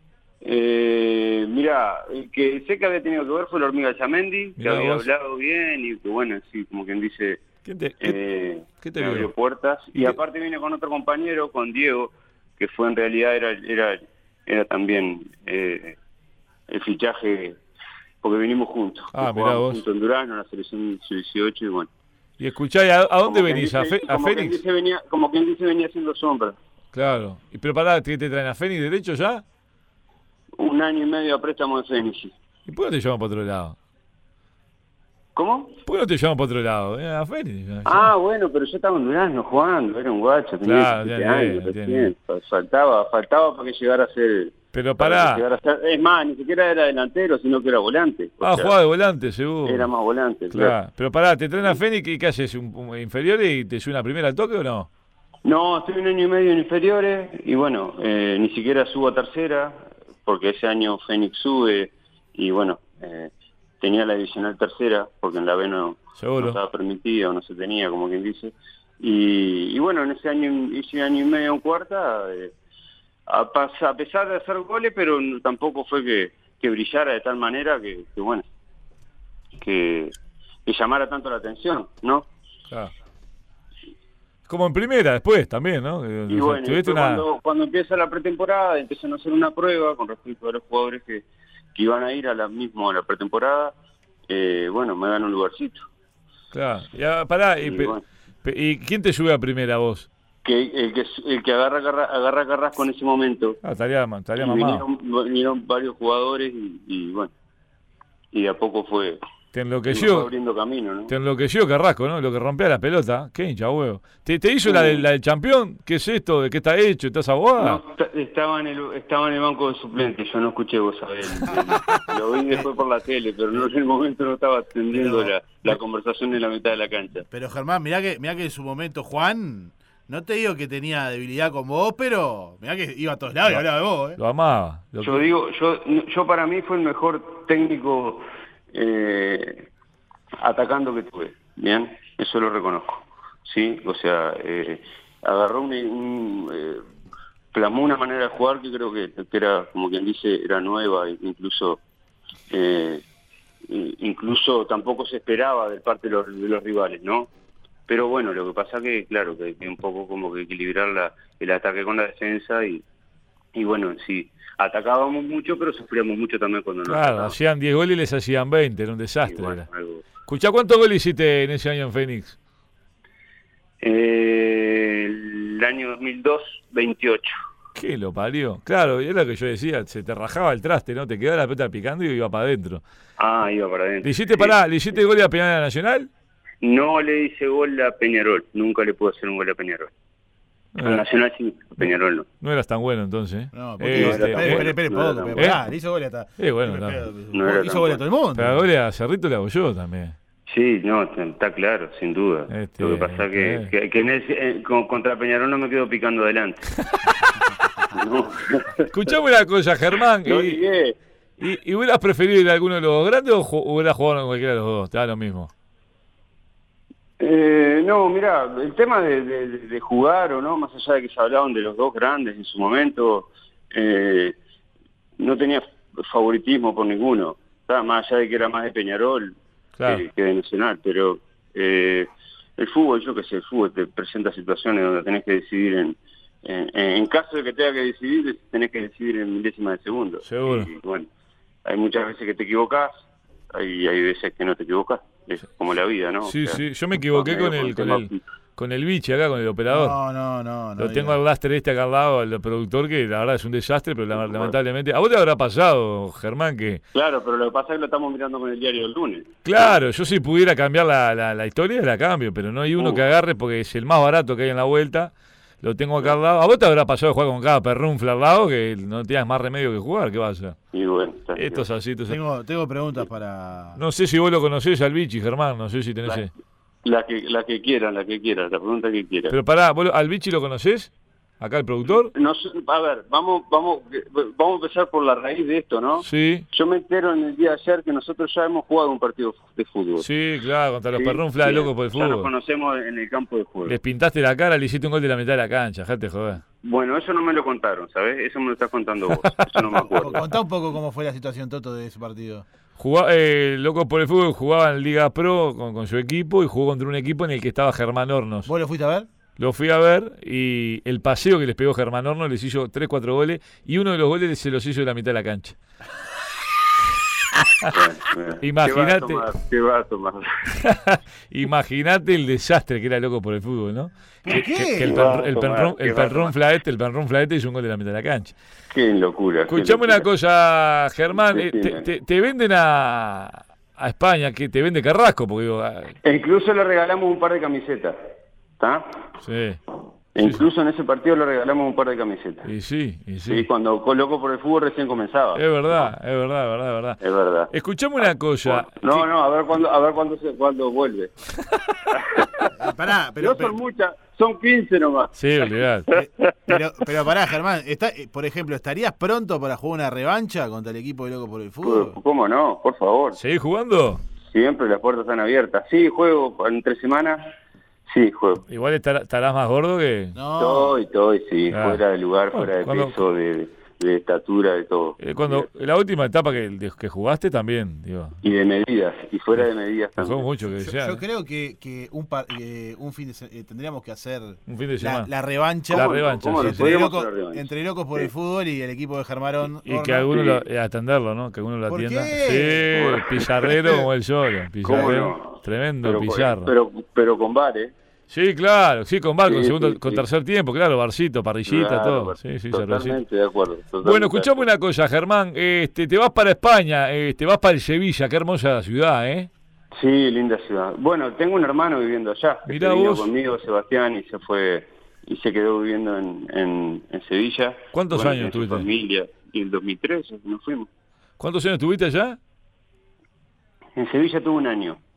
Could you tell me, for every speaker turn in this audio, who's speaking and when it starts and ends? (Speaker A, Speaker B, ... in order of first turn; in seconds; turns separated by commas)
Speaker A: 0.4-7.4, Speaker B: 4.6-5.1, Speaker B: 7.6-8.2, Speaker A: 8.0-16.0, Speaker B: 8.8-9.3, Speaker A: 16.7-17.6, Speaker A: 18.2-21.9, Speaker B: 19.1-19.8, Speaker B: 22.4-24.6, Speaker A: 23.2-26.6, Speaker B: 26.9-29.4, Speaker A: 30.6-32.3, Speaker B: 32.7-33.8, Speaker A: 35.4-35.8, Speaker B: 35.9-38.1, Speaker A: 37.9-48.8, Speaker B: 40.6-42.1, Speaker B: 44.7-45.4, Speaker B: 48.4-49.9, Speaker A: 49.6-50.7, Speaker B: 50.5-54.9, Speaker A: 55.4-72.5, Speaker B: 66.2-66.6, Speaker A: 73.3-78.4, Speaker A: 79.6-80.1, Speaker A: 80.7-82.3, Speaker B: 84.5-87.2, Speaker A: 86.3-93.7, Speaker A: 94.3-95.9, Speaker B: 96.5-100.1, Speaker A: 97.6-98.0, Speaker A: 100.4-103.6, Speaker B: 103.6-104.8, Speaker A: 104.4-107.3, Speaker A: 108.3-109.2, Speaker B: 109.5-110.3, Speaker A: 109.9-111.1, Speaker B: 111.1-117.8, Speaker A: 114.6-115.0, Speaker A: 117.6-127.2, Speaker C: 121.7-122.7, Speaker C: 124.9-125.8, Speaker C: 127.3-134.2, Speaker B: 134.2-135.2, Speaker A: 135.0-139.7, Speaker A: 140.4-146.8, Speaker A: 147.5-151.8, Speaker A: 152.5-153.0, Speaker A: 153.7-157.3, Speaker A: 157.9-162.8, Speaker A: 163.5-167.3, Speaker B: 166.8-169.7, Speaker A: 169.2-170.0, Speaker B: 170.2-172.4, Speaker A: 173.8-177.3, Speaker B: 177.7-182.8, Speaker A: 183.2-184.6, Speaker B: 184.0-186.1, Speaker A: 186.6-189.9, Speaker B: 190.7-191.0, Speaker A: 190.8-192.2, Speaker B: 192.4-194.7, Speaker C: 193.5-198.7, Speaker A: 193.9-195.5, Speaker B: 196.4-197.1, Speaker A: 197.3-198.0, Speaker B: 198.3-200.2, Speaker A: 200.5-206.7, Speaker B: 202.5-203.7, Speaker A: 207.9-209.1, Speaker B: 208.9-210.6, Speaker A: 210.2-211.0, Speaker B: 211.4-215.5, Speaker A: 217.2-224.3, Speaker A: 225.2-241.1, Speaker B: 229.8-230.0, Speaker B: 240.2-240.7, Speaker A: 241.6-242.9, Speaker A: 243.5-246.6, Speaker B: 246.2-250.0, Speaker A: 247.1-248.2, Speaker C: 249.7-251.2, Speaker B: 250.8-256.8, Speaker A: 254.1-254.5, Speaker A: 256.9-259.7, Speaker B: 259.4-270.6, Speaker A: 270.7-271.6, Speaker B: 271.3-272.2, Speaker C: 272.1-273.8, Speaker B: 273.8-276.3, Speaker A: 276.8-279.3, Speaker B: 279.3-282.1, Speaker A: 281.9-290.1, Speaker B: 286.0-286.4, Speaker B: 290.0-292.3, Speaker A: 290.9-293.8, Speaker B: 293.7-296.4, Speaker A: 296.6-300.2, Speaker B: 299.4-299.8, Speaker C: 299.8-302.4, Speaker B: 302.8-308.5, Speaker C: 308.4-309.1, Speaker B: 309.4-315.6, Speaker A: 317.7-320.4, Speaker B: 318.4-319.3, Speaker B: 320.5-328.3, Speaker C: 324.2-325.1, Speaker A: 324.8-326.3, Speaker A: 328.7-330.1, Speaker B: 329.5-336.0, Speaker A: 331.1-331.9, Speaker A: 336.0-338.0, Speaker A: 338.6-339.1, Speaker B: 339.2-339.6, Speaker A: 340.1-342.5, Speaker B: 342.4-343.5, Speaker A: 343.3-345.4, Speaker B: 345.3-347.0, Speaker A: 347.0-347.5, Speaker B: 347.5-349.1, Speaker A: 348.0-351.1, Speaker A: 351.9-352.5, Speaker C: 352.5-353.6, Speaker A: 353.2-356.6, Speaker B: 355.2-355.9, Speaker C: 355.9-362.0, Speaker A: 361.6-363.2, Speaker B: 363.1-364.0, Speaker A: 364.3-367.3, Speaker A: 367.9-368.4, Speaker B: 368.5-370.2, Speaker C: 370.1-370.8, Speaker A: 370.4-375.5, Speaker B: 371.5-371.8, Speaker B: 372.3-373.0, Speaker B: 375.0-378.2, Speaker A: 378.2-380.2, Speaker B: 380.0-381.0, Speaker C: 380.5-390.3, Speaker B: 384.5-385.1, Speaker B: 385.7-386.7, Speaker A: 385.7-388.0, Speaker B: 389.6-396.5, Speaker A: 390.1-390.4, Speaker C: 391.7-392.9, Speaker A: 392.7-393.8, Speaker A: 394.6-397.7, Speaker B: 398.1-403.0, Speaker A: 399.2-400.0, Speaker A: 401.5-404.4, Speaker B: 403.8-409.3, Speaker A: 409.7-420.7, Speaker B: 412.5-413.1, Speaker B: 417.7-418.7, Speaker B: 421.2-422.2, Speaker A: 423.8-424.8